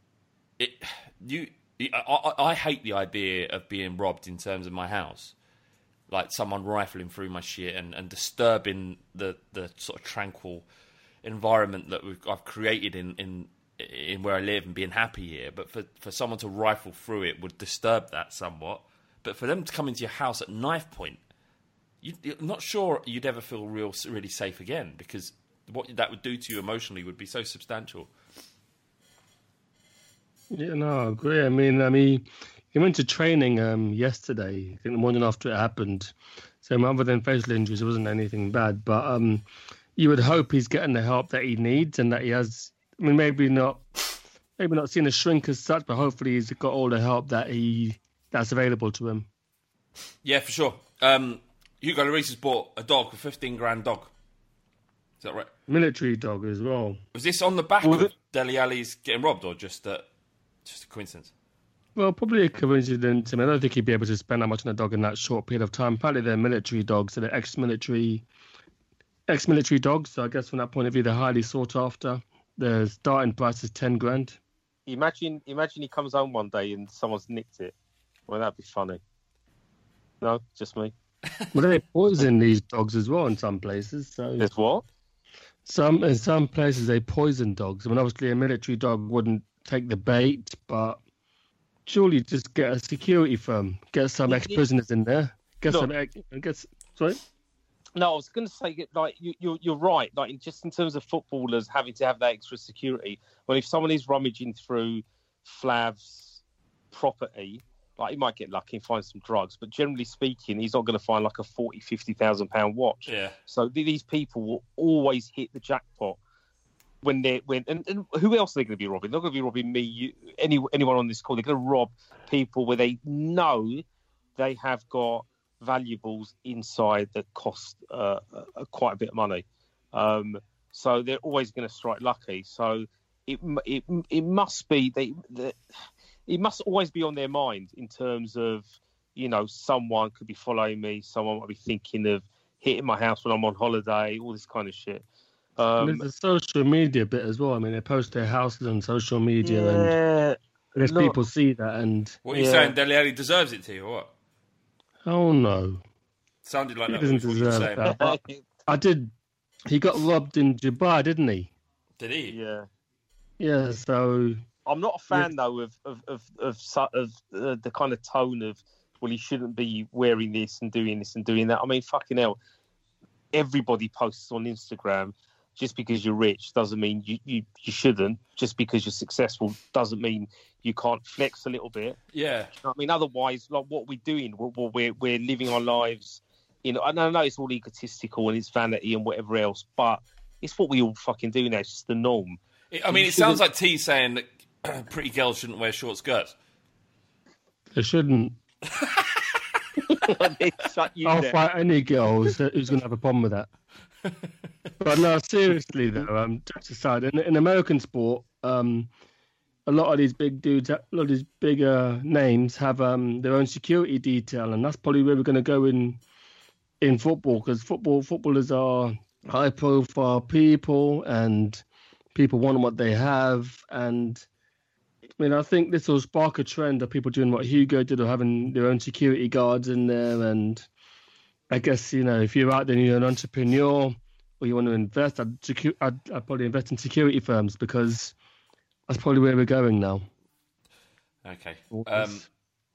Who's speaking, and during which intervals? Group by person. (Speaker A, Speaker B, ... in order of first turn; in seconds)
Speaker A: 0.6-5.3, 6.1-10.7, 11.2-21.2, 22.0-28.1, 50.2-54.1, 55.2-55.5, 57.1-60.1, 60.6-61.3, 113.1-113.3, 152.2-154.1, 156.4-157.9, 162.0-162.4, 182.1-182.5, 192.7-196.3, 198.7-199.4, 241.2-242.2
Speaker B: 30.5-39.4, 40.0-43.8, 44.6-49.3, 55.7-57.0, 62.0-68.2, 69.3-74.4, 81.5-84.5, 85.7-91.0, 91.9-97.2, 145.8-149.9, 150.8-152.2, 155.1-155.8, 156.9-159.1, 159.7-161.5, 163.4-164.4, 197.8-198.4, 201.1-203.5, 204.8-208.9, 209.7-216.0, 216.8-224.3, 225.2-230.7, 231.5-238.1, 238.9-240.1, 241.7-242.2
Speaker C: 57.8-58.1, 74.9-77.7, 78.3-79.0, 80.2-80.9, 84.4-84.8, 94.3-94.6, 98.0-106.4, 106.9-116.2, 117.0-123.8, 124.4-135.6, 136.3-145.0, 145.6-146.0, 149.4-151.2, 152.3-152.7, 157.9-158.4, 162.3-162.7, 164.7-172.4, 173.3-182.0, 182.6-193.4, 199.9-201.4